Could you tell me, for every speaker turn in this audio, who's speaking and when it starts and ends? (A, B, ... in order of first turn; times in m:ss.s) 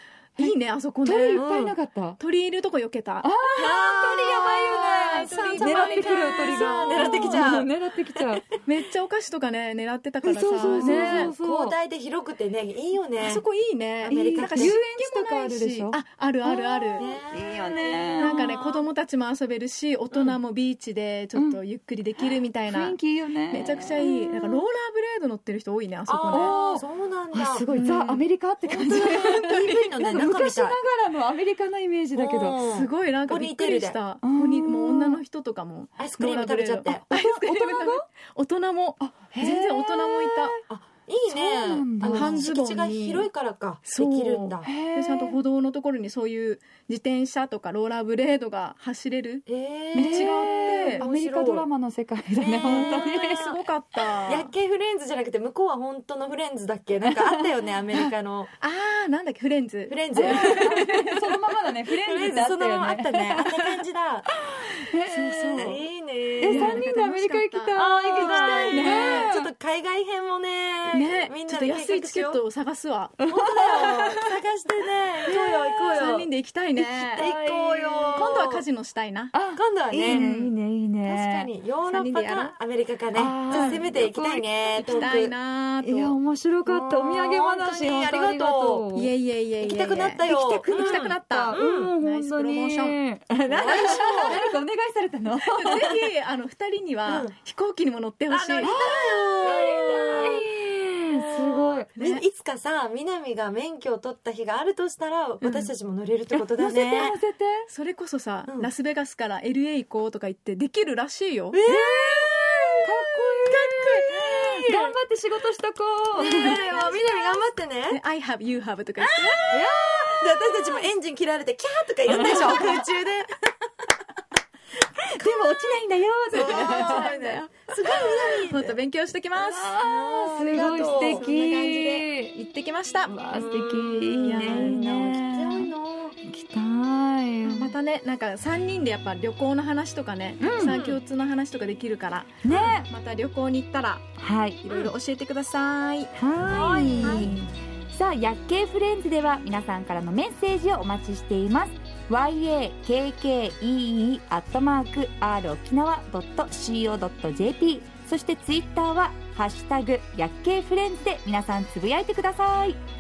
0:00.4-0:01.4 A
0:00.4-0:02.2 B
0:01.4-0:01.8 C
0:02.2-0:03.3 A
0:03.2-0:08.4 B
0:03.5-0:08.4 C
0:05.0-0:07.5 A
0:08.6-0:11.3 A
0:10.2-0:11.8 B
0:10.6-0:13.4 C
0:13.2-0:17.1 A
0:14.0-0:14.8 C
0:14.1-0:18.8 B
0:17.0-0:18.8 C
0:18.2-0:26.6 A
0:21.4-0:21.6 B
0:22.6-0:24.6 B
0:26.1-0:27.7 C
0:26.3-0:32.6 B
0:27.7-0:28.3 A
0:28.7-0:30.8 C
0:28.8-0:29.9 A
0:32.2-0:34.0 C
0:32.6-0:40.6 A
0:34.2-0:35.2 B
0:36.0-0:37.0 C
0:37.1-0:38.1 B
0:39.0-0:40.6 B
0:40.7-0:44.7 C
0:41.3-0:42.5 B
0:42.1-0:43.3 A
0:43.9-0:51.1 A
0:44.6-0:45.4 B
0:49.5-0:51.7 C
0:50.0-0:53.5 B
0:52.4-0:58.5 C
0:52.6-0:54.5 A
0:57.1-0:58.1 B
0:58.6-1:01.0 A
0:59.9-1:04.3 C
1:00.1-1:03.8 B
1:04.6-1:05.8 B
1:05.1-1:05.8 A
1:05.6-1:06.8 C
1:06.4-1:09.5 B
1:06.4-1:09.4 A
1:07.8-1:12.4 C
1:10.9-1:14.4 A
1:13.3-1:13.9 B
1:13.3-1:18.6 C
1:15.2-1:17.3 A
1:17.1-1:18.4 B
1:18.1-1:19.3 A
1:19.3-1:21.5 B
1:19.6-1:20.3 C
1:20.1-1:20.5 A
1:21.0-1:25.3 C
1:21.9-1:22.6 A
1:23.1-1:25.2 B
1:23.5-1:23.8 A
1:24.8-1:26.2 A
1:25.8-1:29.1 B
1:26.6-1:28.9 C
1:29.0-1:33.0 A
1:29.6-1:32.0 C
1:30.2-1:36.1 B
1:33.5-1:34.4 C
1:33.7-1:34.5 A
1:35.5-1:39.0 A
1:37.1-1:37.3 C
1:38.3-1:40.5 C
1:38.6-1:41.9 B
1:41.1-1:47.2 C
1:42.0-1:42.2 A
1:46.4-1:47.7 B
1:47.7-1:51.6 A
1:51.5-1:55.0 C
1:51.7-1:57.4 B
1:56.2-1:58.0 C
1:56.2-1:56.7 A
1:57.9-1:59.5 A
1:59.0-2:03.3 C
1:59.5-2:00.3 B
2:02.1-2:02.8 B
2:05.1-2:07.2 B
2:06.3-2:08.8 C
2:06.3-2:09.8 A
2:09.4-2:12.4 B
2:09.7-2:11.3 C
2:10.4-2:13.2 A
2:13.1-2:15.7 B
2:13.3-2:16.2 C
2:14.2-2:14.8 A
2:16.2-2:17.8 B
2:17.4-2:24.1 A
2:20.4-2:20.8 B
2:20.5-2:21.0 C
2:22.4-2:22.9 B
2:24.2-2:24.6 B
2:24.6-2:26.1 A
2:26.2-2:42.8 B
2:26.5-2:27.4 C
2:27.0-2:27.4 A